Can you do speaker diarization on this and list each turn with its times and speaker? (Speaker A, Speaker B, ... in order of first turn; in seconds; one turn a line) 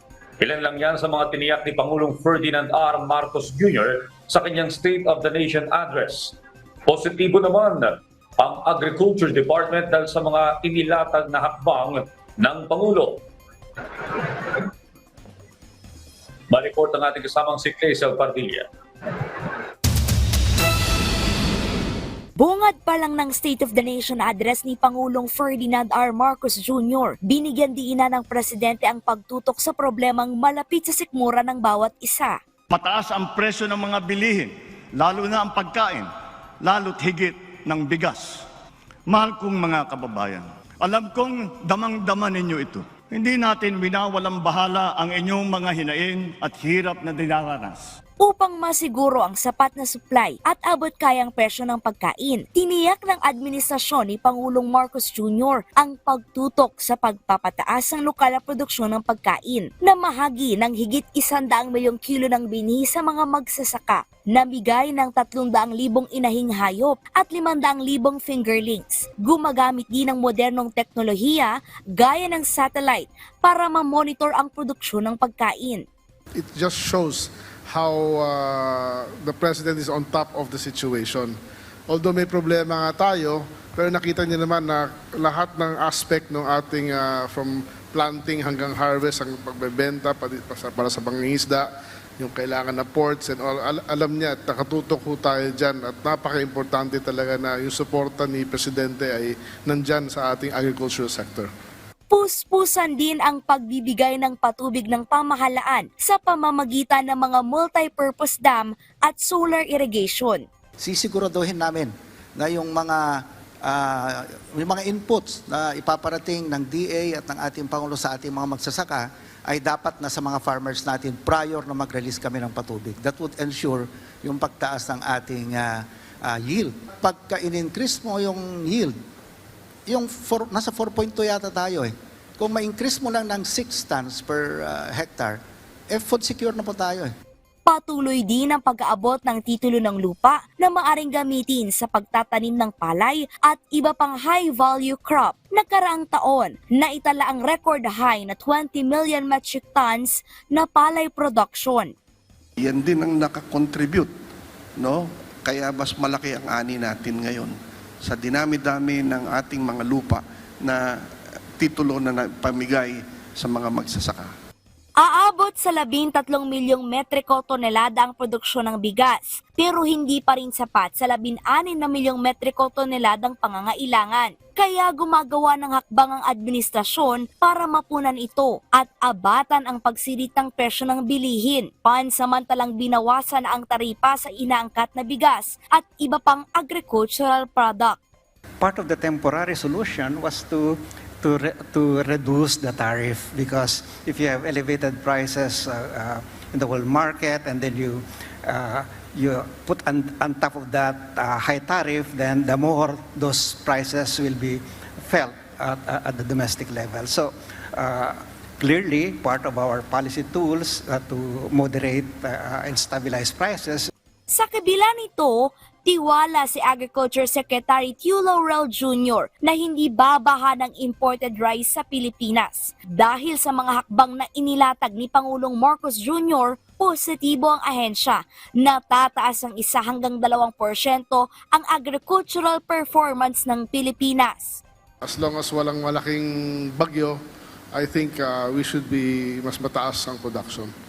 Speaker A: 0.4-6.3
Speaker A: 6.9-13.2
Speaker A: 16.5-18.7
Speaker B: 22.4-32.4
Speaker C: 32.7-38.5
Speaker C: 39.1-47.9
Speaker B: 48.2-75.8
Speaker D: 76.3-81.3
Speaker D: 81.9-91.7
Speaker D: 92.2-101.5
Speaker B: 102.1-110.4
Speaker E: 110.8-128.9
Speaker E: 129.9-135.4
Speaker E: 135.9-137.1
Speaker B: 137.7-151.9
Speaker F: 152.6-154.1
Speaker F: 154.8-160.8
Speaker F: 161.6-164.3
Speaker B: 165.0-188.0
Speaker G: 188.6-213.9
Speaker B: 214.3-234.6
Speaker D: 235.0-237.2
Speaker D: 237.7-240.7